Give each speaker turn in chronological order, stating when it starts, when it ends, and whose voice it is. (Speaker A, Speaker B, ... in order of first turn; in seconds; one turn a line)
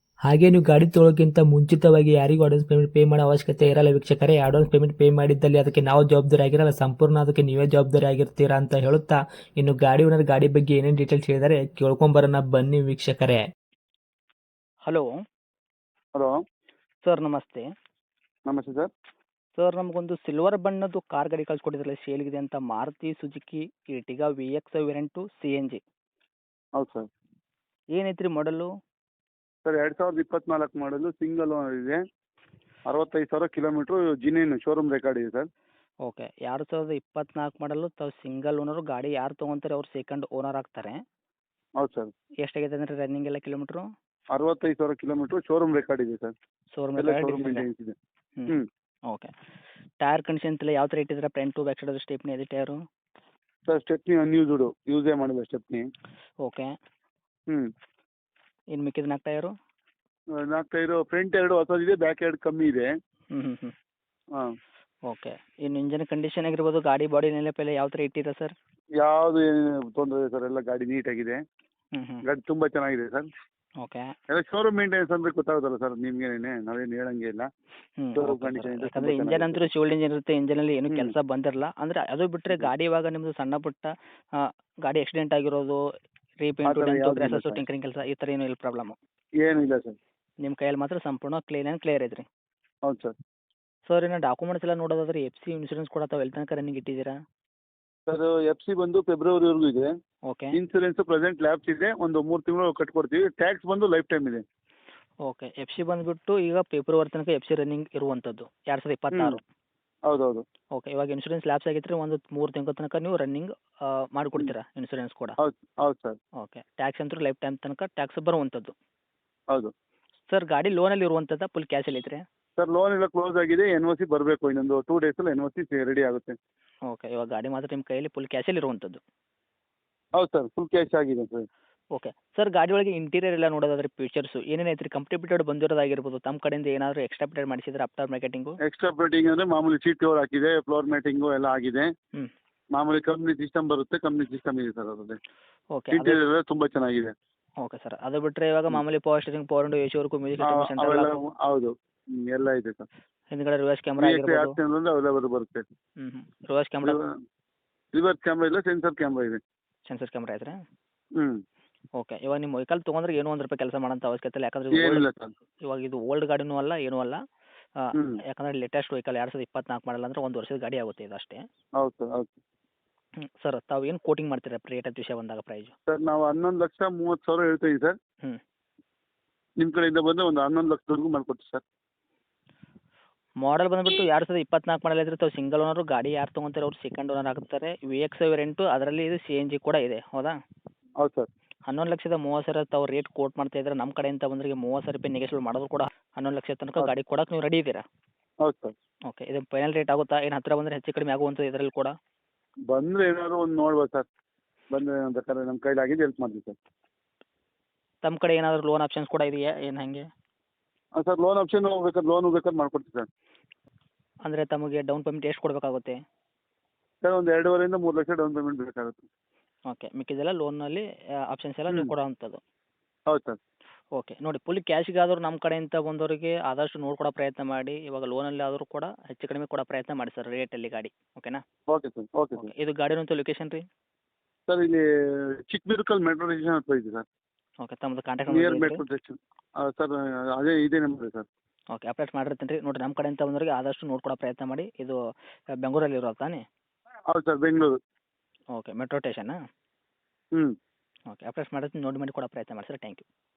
Speaker A: 0.2-13.4
Speaker B: 17.0-17.6
Speaker C: 18.5-18.9
Speaker B: 19.6-25.8
Speaker C: 26.8-27.1
Speaker B: 27.9-28.7
Speaker C: 29.6-32.0
Speaker C: 32.9-35.5
Speaker B: 36.0-41.0
Speaker C: 41.8-42.1
Speaker B: 42.4-43.9
Speaker C: 44.3-46.3
Speaker B: 46.7-47.6
Speaker C: 47.0-47.9
Speaker B: 49.1-49.3
Speaker B: 50.0-52.8
Speaker C: 53.6-55.9
Speaker B: 56.4-56.7
Speaker B: 58.7-59.5
Speaker C: 60.4-62.9
Speaker B: 63.3-63.7
Speaker B: 65.1-68.5
Speaker C: 69.0-71.4
Speaker B: 71.9-72.2
Speaker C: 72.2-73.3
Speaker B: 73.8-74.1
Speaker C: 74.3-77.5
Speaker B: 78.0-85.8
Speaker C: 78.2-79.6
Speaker B: 86.4-89.0
Speaker C: 86.7-87.6
Speaker C: 89.4-90.0
Speaker B: 90.4-92.2
Speaker C: 92.8-93.1
Speaker B: 93.9-97.1
Speaker C: 98.1-99.9
Speaker B: 100.3-100.5
Speaker C: 100.5-104.4
Speaker B: 105.2-109.4
Speaker C: 109.1-109.4
Speaker C: 110.1-110.4
Speaker B: 110.7-115.4
Speaker C: 115.4-116.2
Speaker B: 116.4-118.7
Speaker B: 120.3-122.2
Speaker C: 122.6-126.3
Speaker B: 126.9-129.0
Speaker C: 130.2-131.4
Speaker B: 131.9-138.6
Speaker C: 138.6-141.9
Speaker C: 142.8-145.2
Speaker B: 145.7-146.2
Speaker C: 145.9-147.1
Speaker B: 147.6-151.1
Speaker C: 150.4-152.8
Speaker B: 153.3-154.5
Speaker C: 154.0-155.6
Speaker B: 156.0-157.0
Speaker C: 157.9-159.4
Speaker B: 159.8-160.6
Speaker B: 162.0-165.0
Speaker C: 164.7-165.3
Speaker B: 165.6-167.2
Speaker B: 167.8-171.4
Speaker C: 171.8-172.4
Speaker B: 173.2-175.7
Speaker C: 175.9-178.0
Speaker C: 179.6-181.6
Speaker B: 183.4-190.4
Speaker C: 191.0-191.3
Speaker B: 191.7-197.8
Speaker C: 198.4-198.7
Speaker B: 199.1-201.9
Speaker C: 202.7-204.1
Speaker C: 204.7-206.6
Speaker B: 208.0-210.0
Speaker C: 211.0-213.1
Speaker B: 214.2-216.0
Speaker C: 217.0-219.0
Speaker B: 219.7-222.4
Speaker C: 223.1-223.4
Speaker B: 223.9-231.4
Speaker C: 231.7-232.5
Speaker B: 232.4-233.6
Speaker C: 234.5-234.8
Speaker C: 235.5-237.0
Speaker B: 237.6-238.8
Speaker C: 238.3-241.3
Speaker B: 241.7-244.9
Speaker B: 245.6-246.4
Speaker C: 247.1-247.7
Speaker B: 248.5-249.3
Speaker B: 251.1-253.0